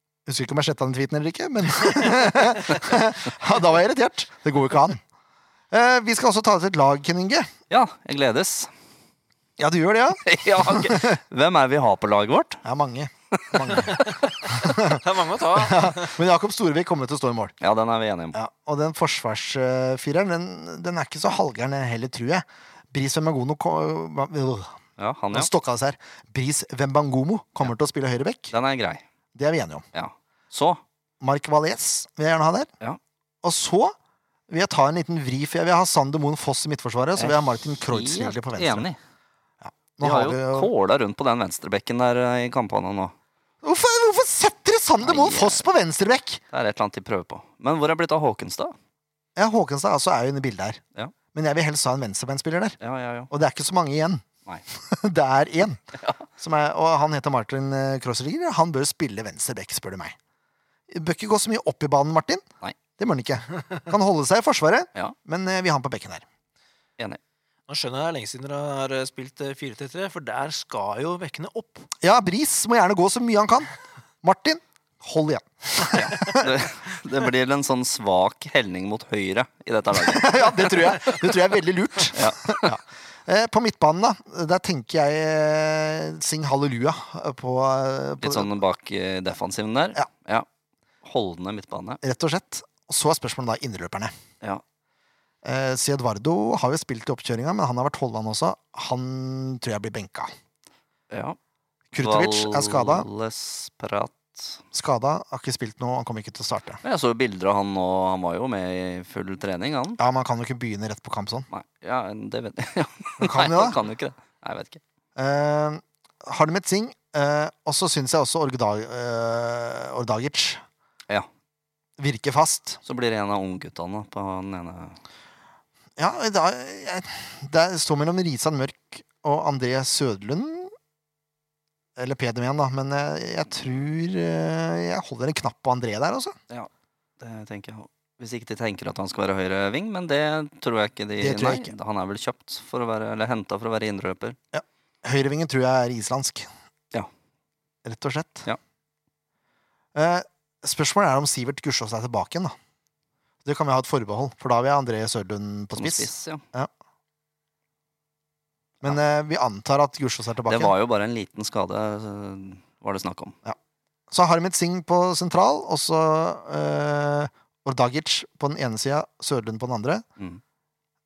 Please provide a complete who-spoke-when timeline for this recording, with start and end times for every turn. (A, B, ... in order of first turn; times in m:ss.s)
0:00.3-0:05.0 A
0:05.7-0:07.5 A
0:07.7-0:08.7 B
0:09.6-0:11.2 A
0:10.2-0:12.6 B
0:12.6-0:17.5 A
0:13.3-0:14.0 B
0:13.8-0:16.2 C
0:17.6-0:18.4 B
0:18.3-0:24.8 A
0:25.0-0:25.5 B
0:25.3-0:28.5 A
0:28.5-0:29.0 B
0:29.3-0:29.8 A
0:29.9-0:30.8 B
0:31.2-0:32.7 A
0:33.4-0:34.0 A
0:34.5-0:38.9 A
0:37.2-0:39.0 B
0:39.6-0:40.7 A
0:40.0-0:43.1 B
0:43.6-0:46.4 A
0:45.0-0:45.6 B
0:46.5-0:48.7 B
0:49.4-0:50.8 A
0:51.3-0:52.8 A
0:52.8-0:53.3 B
0:53.3-0:55.8 A
0:56.0-0:56.2 B
0:56.4-1:00.2 A
1:00.9-1:02.4 A
1:03.0-1:06.2 A
1:07.7-1:11.9 C
1:12.0-1:13.7 A
1:14.2-1:16.5 A
1:15.9-1:21.2 B
1:19.9-1:28.5 A
1:22.1-1:22.7 B
1:28.2-1:30.4 B
1:31.0-1:32.0 B
1:32.0-1:34.1 A
1:35.4-1:40.3 A
1:41.1-1:41.4 B
1:41.9-1:43.1 A
1:42.0-1:44.6 B
1:44.7-1:46.8 A
1:46.8-1:50.0 B
1:50.0-1:51.5 A
1:51.5-1:54.8 B
1:53.2-1:53.8 A
1:55.2-2:00.6 A
2:02.0-2:02.8 A
2:02.8-2:05.0 B
2:06.0-2:10.7 A
2:12.0-2:16.4 A
2:16.5-2:24.4 B
2:21.2-2:21.7 A
2:24.5-2:26.5 A
2:27.8-2:28.5 A
2:29.9-2:32.5 A
2:33.4-2:36.7 A
2:35.7-2:36.4 B
2:38.8-2:40.7 A
2:40.4-2:43.3 B
2:44.1-2:50.0 A